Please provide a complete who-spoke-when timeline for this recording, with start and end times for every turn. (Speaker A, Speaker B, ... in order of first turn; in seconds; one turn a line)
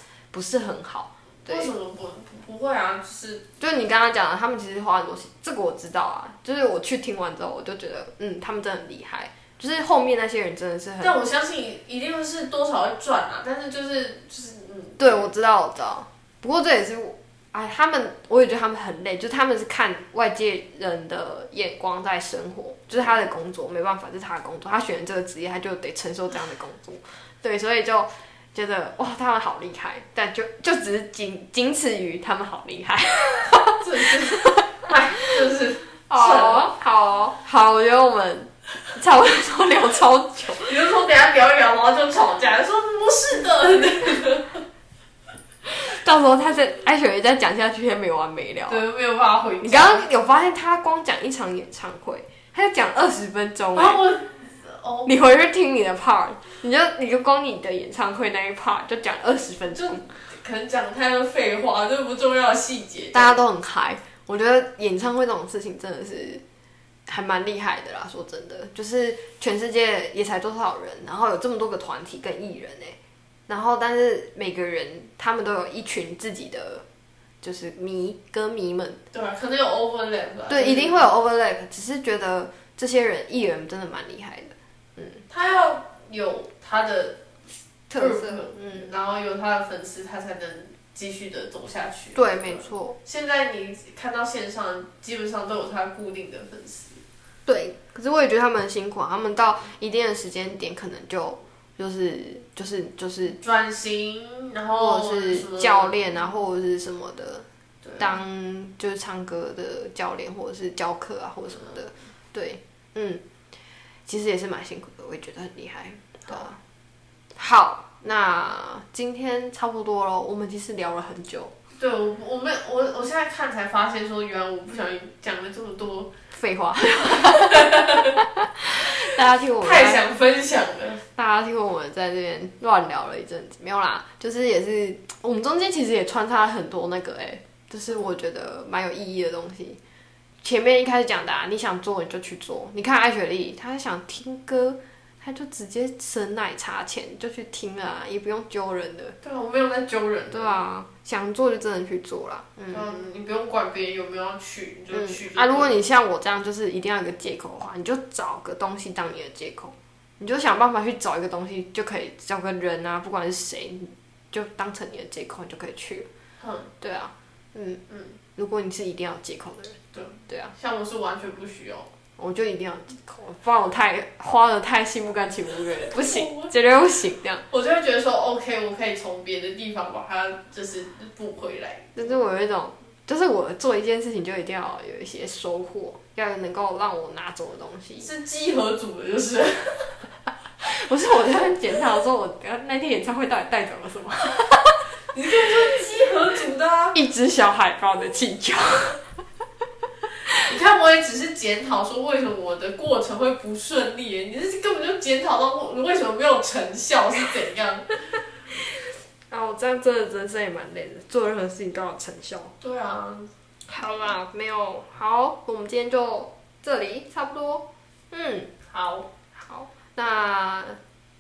Speaker A: 0.3-1.7
Speaker B: 1.4-3.4
Speaker A: 3.6-11.2
Speaker B: 11.0-15.3
Speaker A: 15.0-33.8
Speaker B: 33.8-36.7
Speaker A: 36.1-40.8
Speaker B: 40.6-44.6
Speaker A: 45.7-48.8
Speaker B: 48.7-50.1
Speaker A: 49.6-54.0
Speaker B: 53.8-55.1
Speaker A: 55.1-60.1
Speaker B: 59.8-63.4
Speaker A: 63.1-66.4
Speaker A: 67.1-73.0
Speaker A: 73.5-76.8
Speaker A: 77.4-79.0
Speaker B: 79.1-81.0
Speaker A: 80.5-85.2
Speaker B: 85.3-87.2
Speaker A: 87.9-88.9
Speaker B: 88.0-97.0
Speaker A: 92.2-93.0
Speaker A: 97.5-103.4
Speaker B: 103.4-106.2
Speaker A: 104.8-107.5
Speaker A: 108.0-113.2
Speaker A: 114.1-116.6
Speaker A: 117.4-121.5
Speaker B: 121.8-126.1
Speaker A: 126.3-130.0
Speaker B: 127.1-128.2
Speaker B: 129.6-131.0
Speaker A: 131.2-139.8
Speaker A: 140.4-149.2
Speaker B: 149.2-150.6
Speaker A: 150.3-152.8
Speaker B: 152.7-155.8
Speaker A: 154.9-166.1
Speaker B: 166.4-166.7
Speaker A: 166.8-167.8
Speaker B: 167.9-168.2
Speaker A: 168.4-169.8
Speaker B: 169.9-171.9
Speaker A: 172.2-177.4
Speaker B: 175.9-176.5
Speaker B: 177.5-182.0
Speaker A: 182.0-188.1
Speaker B: 188.0-190.0
Speaker A: 190.6-194.8
Speaker B: 195.1-197.0
Speaker A: 196.9-199.0
Speaker B: 200.4-208.1
Speaker A: 209.3-212.5
Speaker B: 212.6-213.3
Speaker A: 213.7-218.5
Speaker B: 218.7-219.1
Speaker A: 219.3-220.8